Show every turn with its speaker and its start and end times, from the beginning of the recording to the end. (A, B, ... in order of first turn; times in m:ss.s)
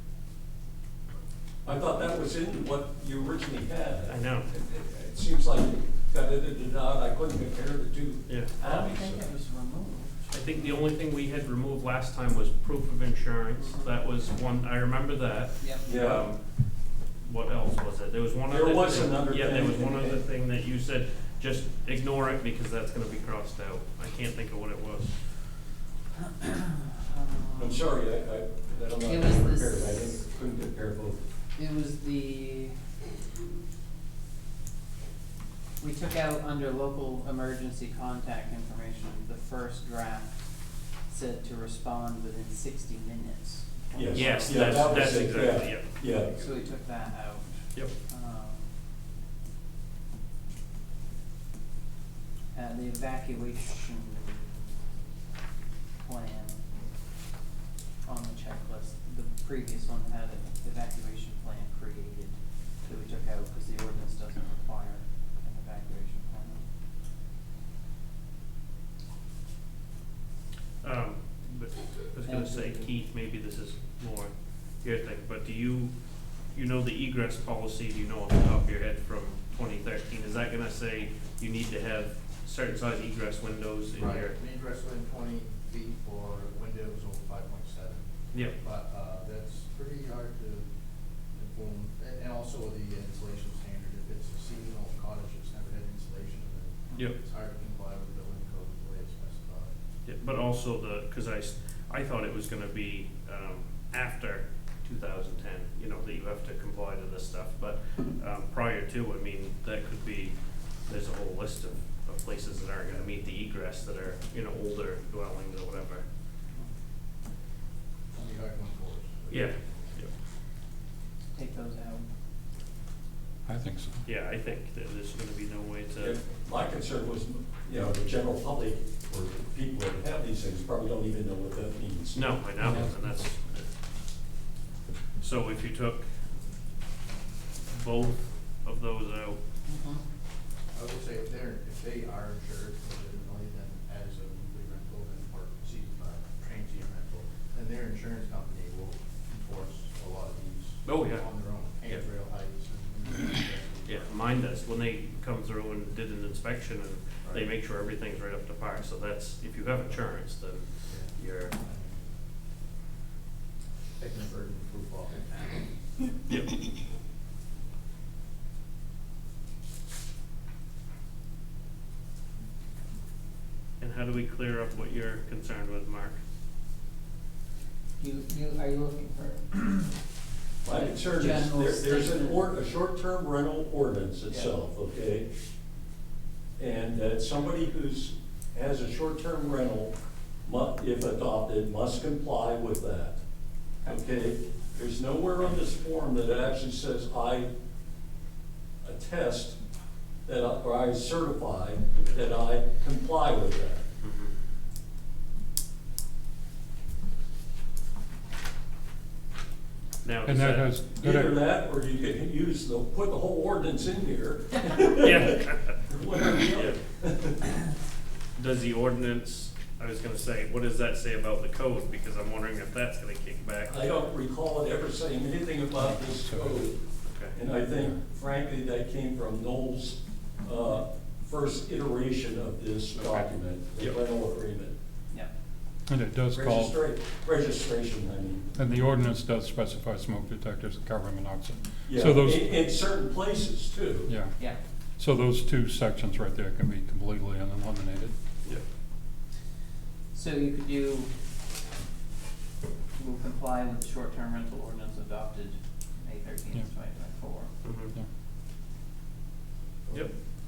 0:01.6-0:09.2 A
0:04.1-0:04.5 B
0:08.3-0:08.5 B
0:08.6-0:10.8 C
0:10.3-0:16.4 B
0:13.6-0:13.9 C
0:15.6-0:15.8 C
0:15.8-0:16.3 A
0:17.2-0:25.2 B
0:18.5-0:20.2 A
0:26.2-0:27.8 C
0:27.5-0:31.2 A
0:29.0-0:30.2 C
0:31.5-0:32.8 C
0:35.8-0:40.4 C
0:41.1-0:48.7 C
0:43.9-0:46.4 A
0:44.1-0:45.9 B
0:52.5-0:54.8 C
0:56.0-0:56.6 C
0:58.0-1:06.6 C
1:10.8-1:15.9 B
1:12.2-1:12.9 C
1:16.5-1:24.3 B
1:24.0-1:30.7 D
1:31.3-1:39.7 D
1:40.0-1:50.4 B
1:50.9-1:56.0 B
1:58.1-1:59.9 D
1:59.3-2:00.1 B
2:01.4-2:02.0 C
2:03.4-2:04.0 E
2:04.0-2:06.1 B
2:06.0-2:12.2 A
2:12.1-2:13.7 B
2:12.6-2:13.0 E
2:15.2-2:16.0 B
2:17.6-2:19.4 B
2:19.7-2:20.0 C
2:20.7-2:34.1 D
2:30.8-2:31.3 B
2:33.8-2:41.5 B
2:40.8-2:42.2 D
2:44.0-2:46.1 D
2:53.8-2:56.2 B
2:58.0-3:00.0 C
3:00.6-3:05.3 A
3:00.7-3:02.5 C
3:04.3-3:04.5 C
3:06.6-3:09.9 A
3:10.4-3:13.2 A
3:13.8-3:17.5 A
3:18.8-3:19.6 A
3:20.2-3:23.8 A
3:24.0-3:24.3 B
3:30.0-3:30.7 B
3:30.2-3:31.4 E
3:31.0-3:37.5 A
3:35.0-3:35.8 B
3:36.5-3:36.8 B
3:38.4-3:43.8 B
3:43.6-3:46.8 A
3:46.2-3:46.6 E
3:47.0-3:47.4 B
3:47.3-3:54.7 A
3:53.0-3:54.0 B
3:55.9-3:56.8 E
3:56.3-3:58.5 A
3:58.5-4:02.6 E
4:01.8-4:04.1 A
4:04.1-4:04.5 E
4:05.0-4:08.1 E
4:10.1-4:11.1 C
4:13.0-4:17.7 C
4:17.6-4:17.9 B
4:19.9-4:20.1 D